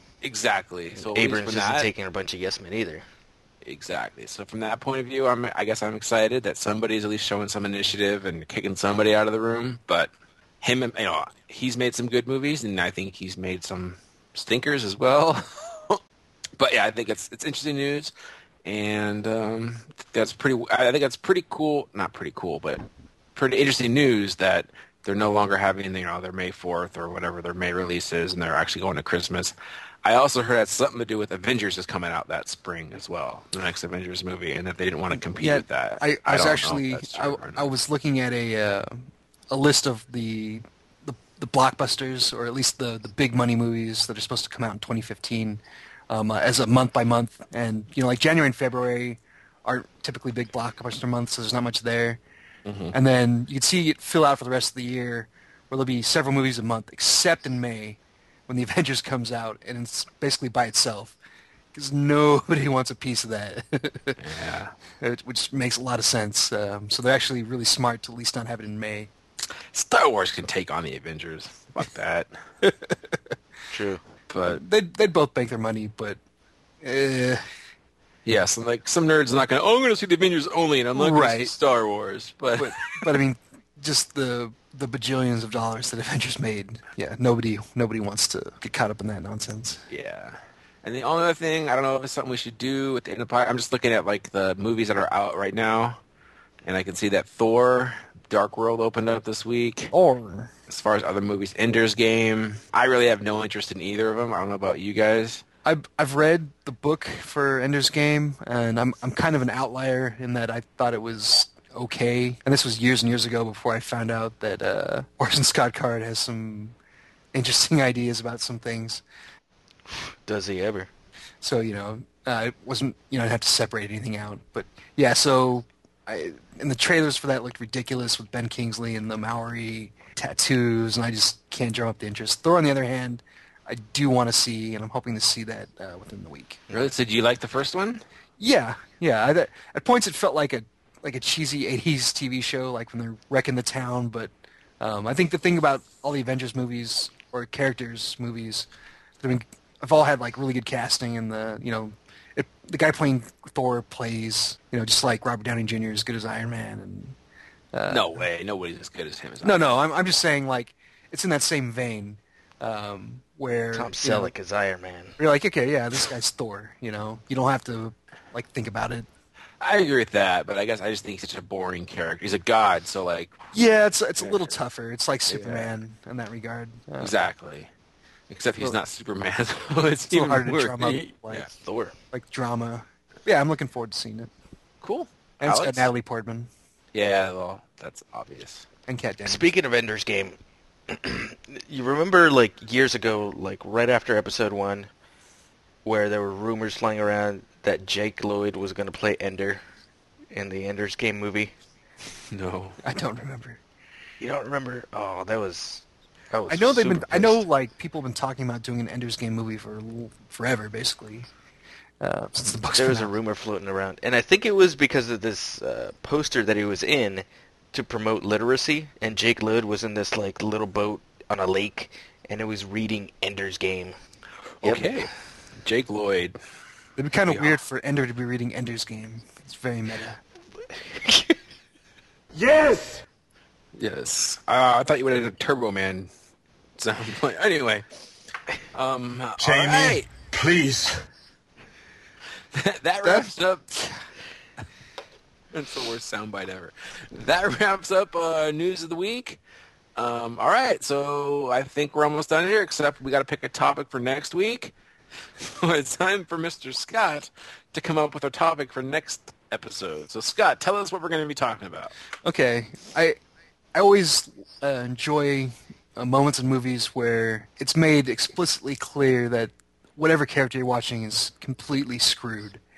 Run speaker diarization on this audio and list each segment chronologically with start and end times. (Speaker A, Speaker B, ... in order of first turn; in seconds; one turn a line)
Speaker A: 0.2-1.9
Speaker B: 1.0-3.0
Speaker A: 3.6-16.0
Speaker A: 16.6-18.1
Speaker A: 18.6-37.7
Speaker C: 35.4-52.2
Speaker A: 52.7-53.0
Speaker C: 52.9-61.2
Speaker C: 61.7-64.2
Speaker A: 64.2-64.7
Speaker C: 65.0-69.1
Speaker A: 69.7-72.3
Speaker B: 73.7-74.0
Speaker A: 74.3-74.6
Speaker C: 74.5-76.2
Speaker C: 76.8-77.4
Speaker A: 78.3-83.2
Speaker C: 81.0-81.5
Speaker C: 82.6-89.8
Speaker A: 89.9-96.0
Speaker A: 96.7-99.9
Speaker C: 99.9-100.5
Speaker A: 100.7-105.4
Speaker C: 105.7-116.8
Speaker C: 117.3-119.0
Speaker B: 119.9-120.9
Speaker C: 121.4-136.6
Speaker A: 136.7-138.0
Speaker C: 138.4-148.7
Speaker C: 149.2-157.2
Speaker C: 157.7-158.2
Speaker A: 157.9-159.7
Speaker C: 159.4-164.3
Speaker B: 163.7-165.2
Speaker C: 165.2-169.1
Speaker A: 169.6-173.5
Speaker C: 173.5-177.1
Speaker A: 174.2-174.6
Speaker A: 175.3-175.7
Speaker A: 177.0-177.7
Speaker A: 178.3-181.5
Speaker C: 180.1-181.5
Speaker B: 181.5-182.0
Speaker C: 182.1-184.3
Speaker A: 184.8-185.9
Speaker C: 185.4-186.5
Speaker A: 186.9-188.7
Speaker C: 188.9-189.5
Speaker B: 189.3-194.9
Speaker B: 195.8-199.6
Speaker B: 200.3-201.5
Speaker A: 202.3-202.8
Speaker C: 202.8-203.6
Speaker B: 204.2-207.5
Speaker C: 206.5-211.3
Speaker C: 212.0-213.1
Speaker B: 212.7-224.0
Speaker A: 224.6-225.1
Speaker B: 224.6-225.1
Speaker A: 225.6-226.4
Speaker C: 227.0-230.2
Speaker A: 227.3-227.6
Speaker B: 230.6-231.4
Speaker D: 232.3-233.0
Speaker A: 233.8-236.1
Speaker A: 236.8-237.8
Speaker A: 238.7-240.1
Speaker D: 239.4-240.9
Speaker A: 242.5-243.7
Speaker C: 243.0-244.0
Speaker A: 245.5-249.4
Speaker A: 250.0-254.7
Speaker A: 255.4-261.9
Speaker C: 262.2-263.2
Speaker C: 263.8-272.6